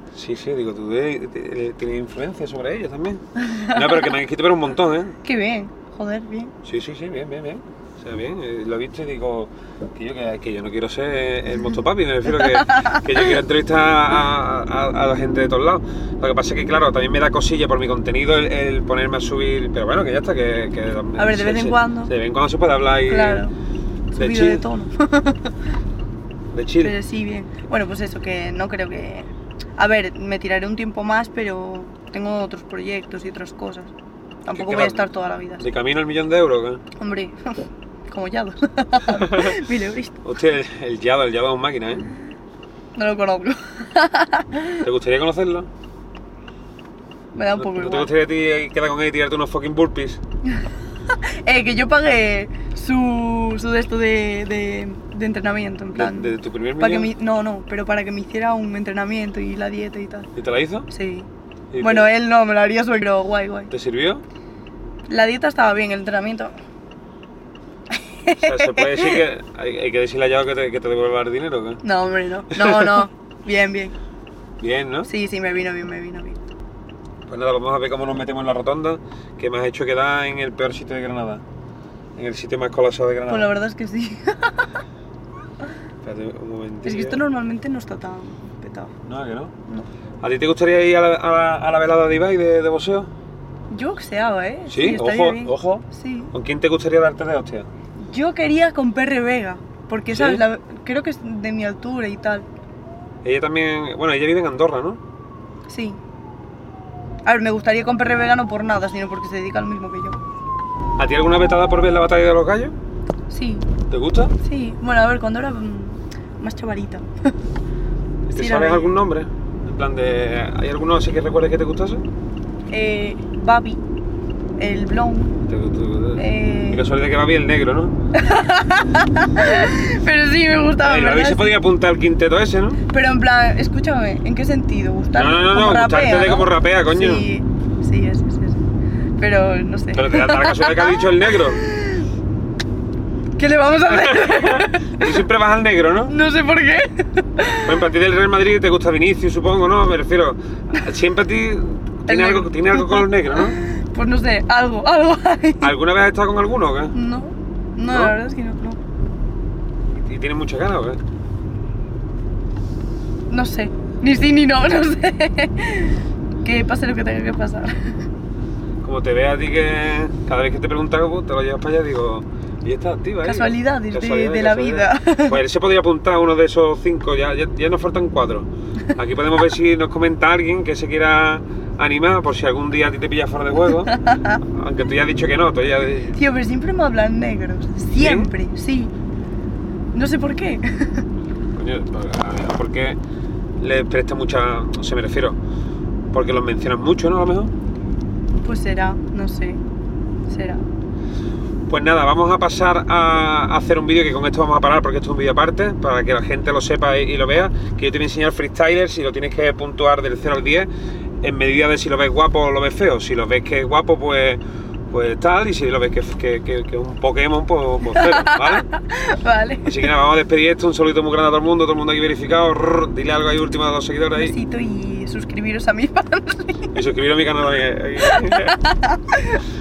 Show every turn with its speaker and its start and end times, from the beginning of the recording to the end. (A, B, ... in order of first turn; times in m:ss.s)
0:00.1-0:05.2 A
0:03.4-0:04.1 B
0:05.2-0:06.5 B
0:06.6-0:23.4 A
0:12.3-0:13.4 B
0:21.2-0:22.1 B
0:23.1-0:23.5 B
0:24.1-0:25.6 B
0:24.1-0:24.6 A
0:26.5-0:27.0 A
0:26.8-0:33.9 B
0:34.4-0:35.6 B
0:34.5-0:35.1 A
0:35.6-0:36.8 A
0:37.0-0:40.2 B
0:39.0-0:39.6 A
0:40.2-0:42.1 A
0:43.0-0:44.8 B
0:44.8-0:45.7 A
0:47.3-0:48.1 B
0:47.6-0:50.2 A
0:50.6-1:00.3 B
0:55.9-0:57.1 A
1:00.4-1:00.9 A
1:00.9-1:01.3 B
1:01.7-1:02.1 A
1:01.8-1:03.7 B
1:03.7-1:04.2 A
1:05.1-1:06.5 B
1:07.9-1:09.2 B
1:08.4-1:11.8 A
1:11.8-1:14.0 B
1:12.5-1:13.0 A
1:14.6-1:15.1 A
1:15.1-1:16.5 B
1:17.3-1:21.4 A
1:22.2-1:23.5 A
1:23.3-1:24.8 B
1:26.0-1:27.2 A
1:26.8-1:28.9 B
1:29.0-1:29.5 A
1:30.2-1:33.1 A
1:33.7-1:36.3 B
1:34.7-1:37.7 A
1:38.0-1:42.5 B
1:40.1-1:40.4 A
1:43.2-1:45.0 A
1:45.7-1:46.0 B
1:47.2-1:50.2 B
1:51.0-1:52.7 A
1:53.3-1:53.7 B
1:53.9-1:54.3 A
1:54.4-1:57.3 B
1:58.3-2:02.0 A
1:58.3-1:58.9 B
2:02.7-2:03.8 B
2:04.6-2:05.4 B
2:05.5-2:08.0 A
2:06.2-2:06.8 B
2:08.1-2:11.6 B
2:10.8-2:12.8 A
2:12.9-2:18.6 B
2:15.1-2:17.3 A
2:19.2-2:22.1 B
2:19.9-2:21.6 A
2:23.4-2:25.2 B
2:23.9-2:26.1 A
2:26.1-2:27.8 B
2:27.5-2:33.6 A
2:32.1-2:35.7 B
2:35.6-2:37.0 A
2:36.9-2:38.8 B
2:37.9-2:38.2 A
2:40.0-2:41.0 A
2:43.3-2:48.0 B
2:48.8-3:06.2 A
2:53.2-2:55.4 B
3:03.9-3:04.4 B
3:06.1-3:08.9 B
3:07.9-3:08.3 A
3:09.9-3:11.0 B
3:11.6-3:13.0 A
3:13.6-3:15.4 A
3:16.1-3:17.5 A
3:18.4-3:19.6 B
3:20.3-3:20.7 B
3:21.7-3:30.7 A
3:31.2-3:38.7 A
3:37.9-3:39.9 B
3:39.6-3:44.4 A
3:44.2-3:46.7 B
3:46.7-3:48.6 A
3:48.0-3:49.4 B